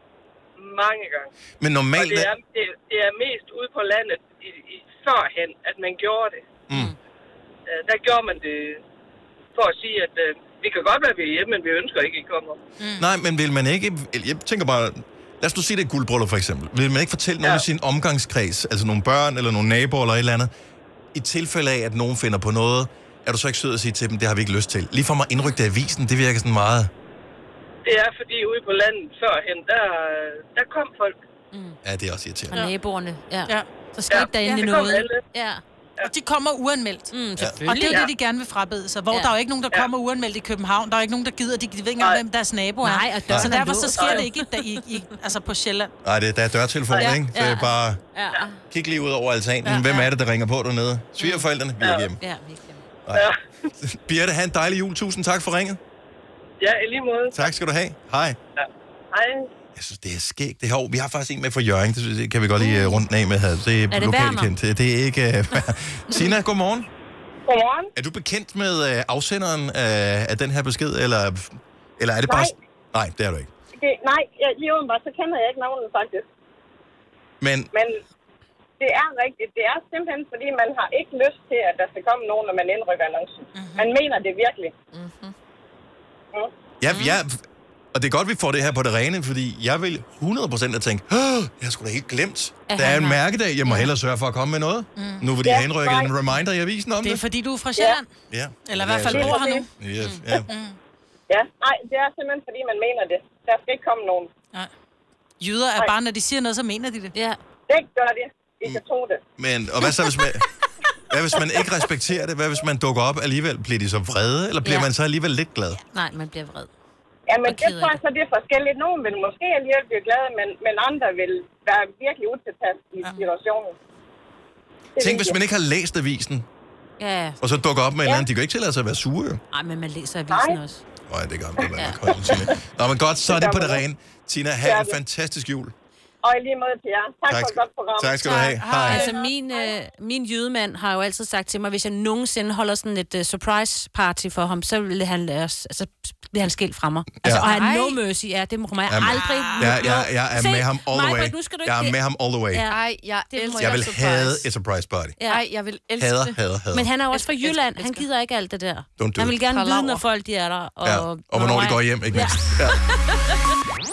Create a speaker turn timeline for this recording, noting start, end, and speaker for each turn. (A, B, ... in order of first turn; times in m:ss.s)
0:00.6-0:01.3 A
0:01.6-0:02.3 B
0:02.0-0:06.4 A
0:06.7-0:06.9 B
0:07.7-0:08.8 A
0:09.6-0:12.6 A
0:12.8-0:13.1 C
0:13.0-0:20.5 B
0:21.1-0:26.9 B
0:27.8-0:31.2 A
0:31.5-0:31.8 D
0:31.8-0:32.7 B
0:32.5-0:35.6 D
0:34.1-0:35.2 A
0:34.3-0:34.8 C
0:36.0-0:37.1 C
0:37.1-0:38.1 D
0:37.6-0:45.9 C
0:42.8-0:44.8 D
0:43.3-0:43.6 B
0:46.0-0:48.0 B
0:46.9-0:48.6 D
0:48.7-0:52.2 B
0:49.8-0:50.1 D
0:52.2-0:52.8 D
0:53.8-0:55.8 B
0:56.6-0:57.4 A
0:57.3-0:58.4 B
0:58.6-0:59.4 A
0:59.8-1:06.9 B
1:02.6-1:03.0 D
1:03.9-1:04.5 D
1:07.5-1:07.9 E
1:08.0-1:13.5 B
1:12.3-1:12.6 E
1:13.8-1:16.3 E
1:17.4-1:17.7 B
1:18.8-1:24.7 E
1:23.6-1:23.9 C
1:24.9-1:25.3 F
1:26.8-1:27.4 B
1:26.9-1:27.2 D
1:27.9-1:37.2 B
1:32.7-1:33.9 D
1:35.0-1:35.3 C
1:35.4-1:36.1 E
1:37.0-1:38.1 C
1:38.3-1:40.5 B
1:38.7-1:39.7 C
1:39.0-1:39.7 E
1:40.5-1:40.8 C
1:41.3-1:44.3 E
1:45.4-1:47.1 C
1:47.1-1:47.4 D
1:47.7-1:49.2 E
1:49.4-1:50.5 B
1:51.1-1:55.8 B
1:55.9-1:56.7 D
1:57.3-2:03.8 E
1:57.4-1:58.0 D
2:05.0-2:05.4 E
2:05.0-2:06.5 B
2:07.0-2:07.4 D
2:07.4-2:09.4 B
2:09.5-2:10.8 D
2:10.3-2:10.6 E
2:11.1-2:15.7 B
2:12.1-2:12.5 E
2:13.3-2:13.8 E
2:14.6-2:14.9 E
2:16.2-2:19.7 E
2:17.3-2:19.1 B
2:18.3-2:19.1 C
2:18.8-2:32.0 D
2:27.2-2:27.5 B
2:27.5-2:28.0 F
2:28.9-2:32.7 B
2:29.2-2:29.8 C
2:32.5-2:33.8 D
2:32.7-2:34.5 F
2:33.5-2:35.2 B
2:35.2-2:35.4 D
2:35.3-2:36.4 F
2:36.0-2:36.9 B
2:36.7-2:43.4 D
2:37.1-2:38.1 F
2:39.0-2:39.4 B
2:39.5-2:40.1 F
2:40.8-2:42.8 B